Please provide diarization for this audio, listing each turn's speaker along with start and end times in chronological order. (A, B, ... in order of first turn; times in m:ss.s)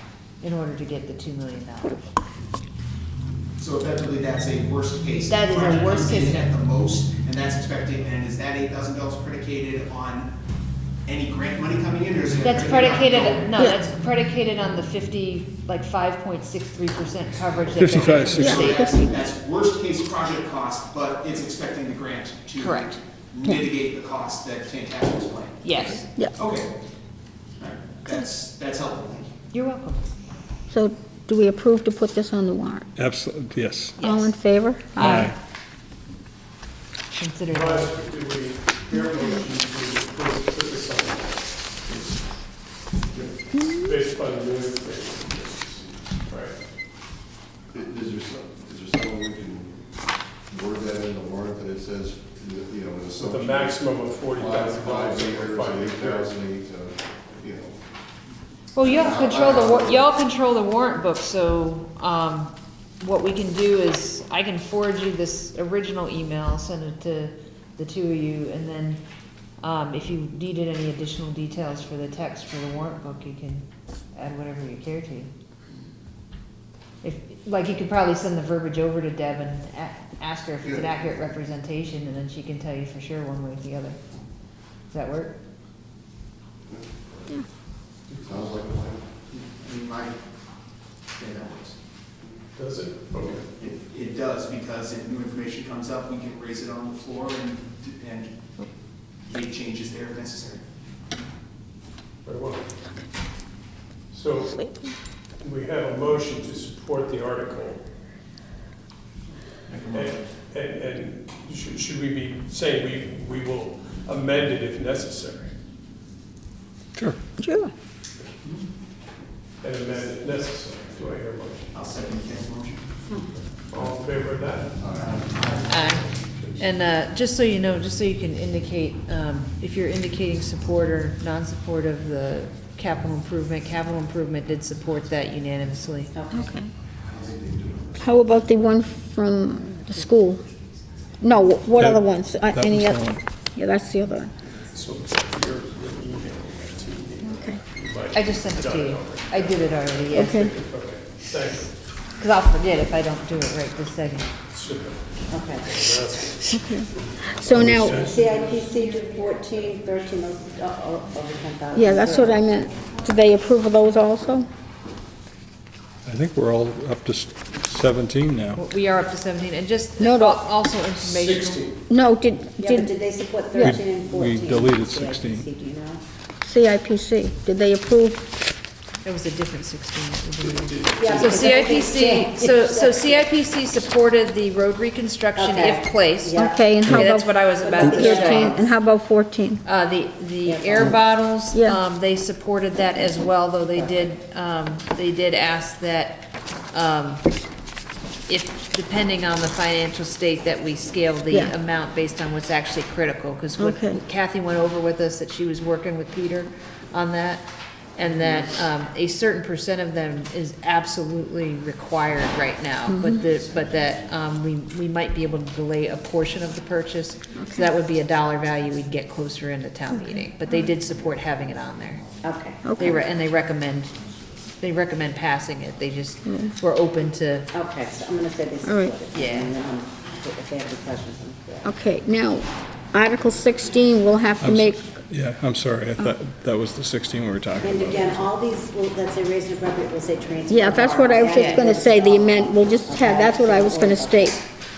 0:00.4-0:02.1 A
0:03.6-0:10.3 B
0:05.3-0:06.4 A
0:11.0-0:13.5 B
0:12.4-0:18.9 A
0:17.8-0:18.6 C
0:18.0-0:25.7 B
0:18.3-0:19.1 D
0:22.6-0:23.0 A
0:25.6-0:26.0 A
0:26.3-0:26.7 B
0:27.6-0:29.3 B
0:29.5-0:30.0 A
0:30.7-0:32.9 D
0:33.0-0:34.0 C
0:34.0-0:34.4 A
0:34.0-0:35.3 D
0:35.0-0:35.3 A
0:35.0-0:35.3 C
0:37.1-0:37.9 A
0:37.5-0:41.7 E
0:39.2-0:39.4 D
0:43.5-0:46.6 E
0:47.7-0:49.8 F
0:50.5-0:57.8 F
0:53.2-0:56.4 E
0:58.7-1:09.0 A
0:58.8-1:00.1 F
1:09.6-1:15.3 A
1:17.0-1:24.0 A
1:24.9-1:25.4 A
1:28.2-1:29.1 F
1:29.3-1:30.2 B
1:31.2-1:31.8 B
1:32.6-1:33.5 E
1:33.6-1:38.3 B
1:39.2-1:40.6 B
1:42.2-1:42.7 E
1:44.1-1:47.8 E
1:44.5-1:44.9 D
1:49.7-1:50.0 B
1:49.9-1:55.5 E
1:57.4-1:57.7 D
1:59.6-2:01.7 E
2:01.8-2:02.8 B
2:03.7-2:06.7 E
2:04.9-2:05.6 B
2:05.7-2:16.1 A
2:16.1-2:16.5 G
2:16.3-2:16.7 D
2:17.1-2:18.1 F
2:18.0-2:20.4 D
2:21.2-2:24.3 D
2:21.8-2:23.2 C
2:24.6-2:31.8 E
2:27.2-2:27.6 D
2:28.1-2:30.5 A
2:30.1-2:30.5 D
2:32.2-2:34.3 A
2:34.5-2:38.6 E
2:35.3-2:35.9 G
2:36.5-2:38.1 D
2:37.6-2:38.0 C
2:37.9-2:42.5 G
2:38.1-2:39.4 A
2:41.7-2:44.5 D
2:46.0-2:48.6 C
2:48.5-2:51.7 A
2:50.0-2:50.4 D
2:51.1-2:51.8 E
2:51.9-2:52.9 D
2:52.6-2:56.0 G
2:53.5-2:55.5 C
2:56.4-2:58.3 D
2:59.0-3:08.6 A
3:00.4-3:01.4 E
3:00.9-3:03.3 G
3:05.3-3:07.0 G
3:06.4-3:09.6 D
3:07.6-3:08.7 G
3:09.6-3:17.2 A
3:10.4-3:10.9 G
3:11.5-3:11.8 D
3:13.7-3:14.0 G
3:18.3-3:42.0 A
3:23.6-3:24.0 D
3:32.9-3:33.2 D
3:37.3-3:37.7 D
3:40.0-3:40.7 D
3:42.2-3:43.0 G
3:42.6-3:43.0 D
3:42.7-3:43.9 A
3:44.6-3:47.5 A
3:46.2-3:46.5 D
3:47.5-3:51.7 G
3:48.6-3:49.0 D
3:49.1-3:49.5 A
3:51.6-3:54.9 D
3:54.4-3:58.3 C
3:57.6-4:04.4 G
4:00.5-4:04.4 D
4:01.3-4:01.7 A